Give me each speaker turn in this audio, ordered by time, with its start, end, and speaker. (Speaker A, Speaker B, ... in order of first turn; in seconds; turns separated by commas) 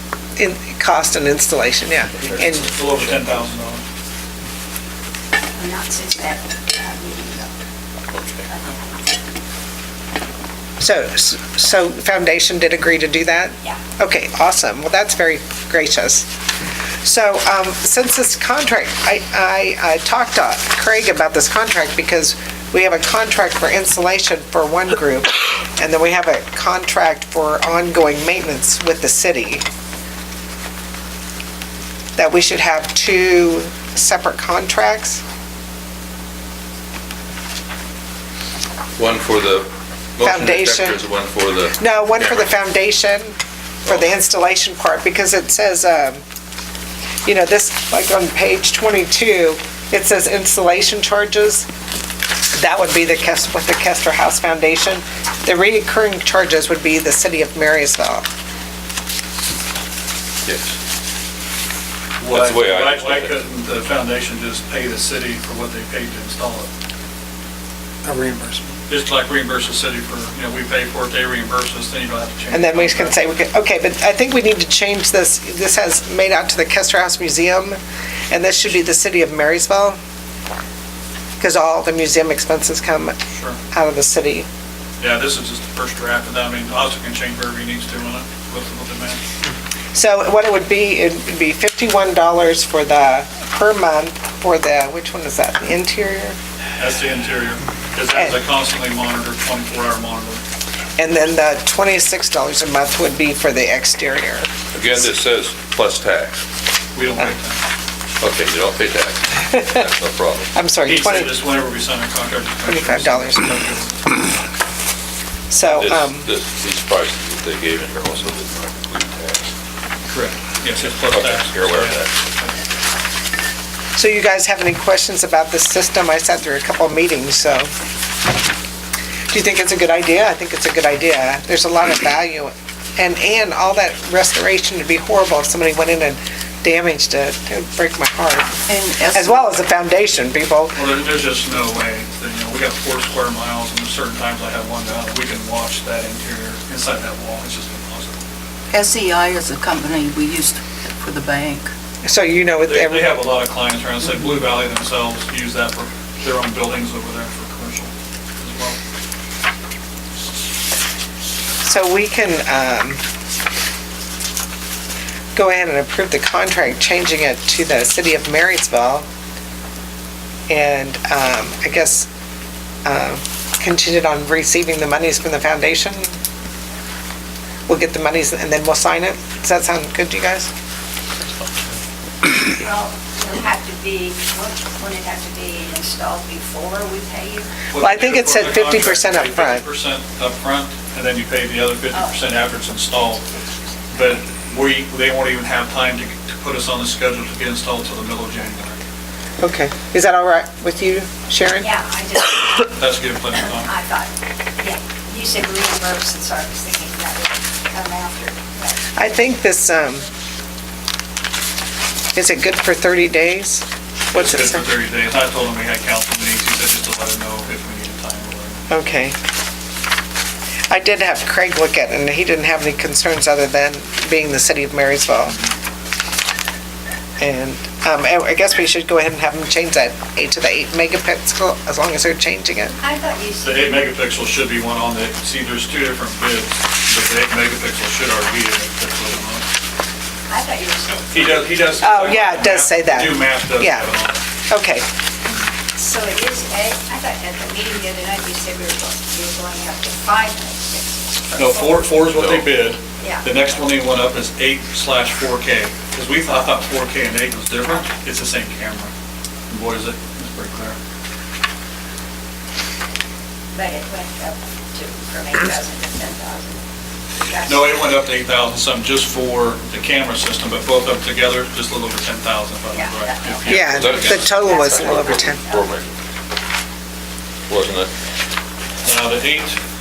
Speaker A: 0.4-2.7, Speaker B: 2.2-3.4, Speaker C: 2.7-3.8, Speaker D: 5.5-7.5, Speaker B: 8.1-8.5, Speaker D: 8.5-9.0, Speaker A: 10.8-16.3, Speaker A: 17.0-29.6, Speaker A: 32.1-35.2, Speaker B: 39.0-42.4, Speaker A: 40.2-41.0, Speaker A: 41.8-46.2, Speaker A: 47.2-51.7, Speaker A: 52.5-58.2, Speaker B: 60.4-60.8, Speaker C: 62.2-66.7, Speaker B: 62.3-63.3, Speaker A: 68.0-68.8, Speaker C: 68.9-73.2, Speaker A: 72.5-77.8, Speaker A: 78.3-80.0, Speaker A: 81.4-83.2, Speaker C: 83.3-83.6, Speaker A: 83.7-84.5, Speaker C: 85.0-89.2, Speaker A: 89.9-96.4, Speaker C: 96.8-100.4, Speaker A: 101.0-104.5, Speaker B: 104.7-106.4, Speaker C: 106.9-107.6, Speaker B: 108.2-110.5, Speaker A: 110.5-111.4, Speaker C: 110.8-114.2, Speaker A: 112.7-113.5, Speaker A: 115.5-116.3, Speaker B: 115.6-119.5, Speaker C: 120.1-122.5, Speaker B: 120.8-122.1, Speaker A: 124.0-127.7, Speaker A: 129.3-138.6, Speaker E: 138.7-139.5, Speaker A: 139.1-140.8, Speaker C: 140.7-148.2, Speaker E: 148.7-151.7, Speaker A: 152.0-153.2, Speaker C: 152.7-158.8, Speaker A: 161.6-163.0, Speaker A: 165.3-169.1, Speaker A: 170.5-172.1, Speaker A: 172.8-176.1, Speaker A: 177.7-180.5, Speaker D: 182.3-187.5, Speaker C: 187.7-193.2, Speaker A: 187.8-189.6, Speaker D: 191.9-192.2, Speaker D: 193.2-193.8, Speaker C: 193.9-198.8, Speaker A: 199.4-201.7, Speaker D: 201.6-202.8, Speaker C: 202.8-203.7, Speaker D: 203.5-209.0, Speaker A: 208.9-210.1, Speaker A: 212.1-214.6, Speaker C: 214.1-218.8, Speaker A: 218.7-219.1, Speaker A: 220.7-225.3, Speaker A: 227.2-232.8, Speaker D: 232.8-233.6, Speaker C: 233.4-239.4, Speaker D: 240.3-241.4, Speaker C: 241.1-244.2, Speaker A: 241.8-243.9, Speaker A: 244.5-244.8, Speaker D: 245.7-251.9, Speaker C: 251.3-258.9, Speaker B: 252.2-252.4, Speaker D: 253.0-253.3, Speaker C: 259.5-260.8, Speaker D: 263.5-266.6, Speaker D: 267.2-267.7, Speaker C: 267.5-274.2, Speaker D: 272.7-275.8, Speaker A: 273.5-275.4, Speaker B: 273.5-275.9, Speaker B: 277.5-277.9, Speaker C: 278.8-279.6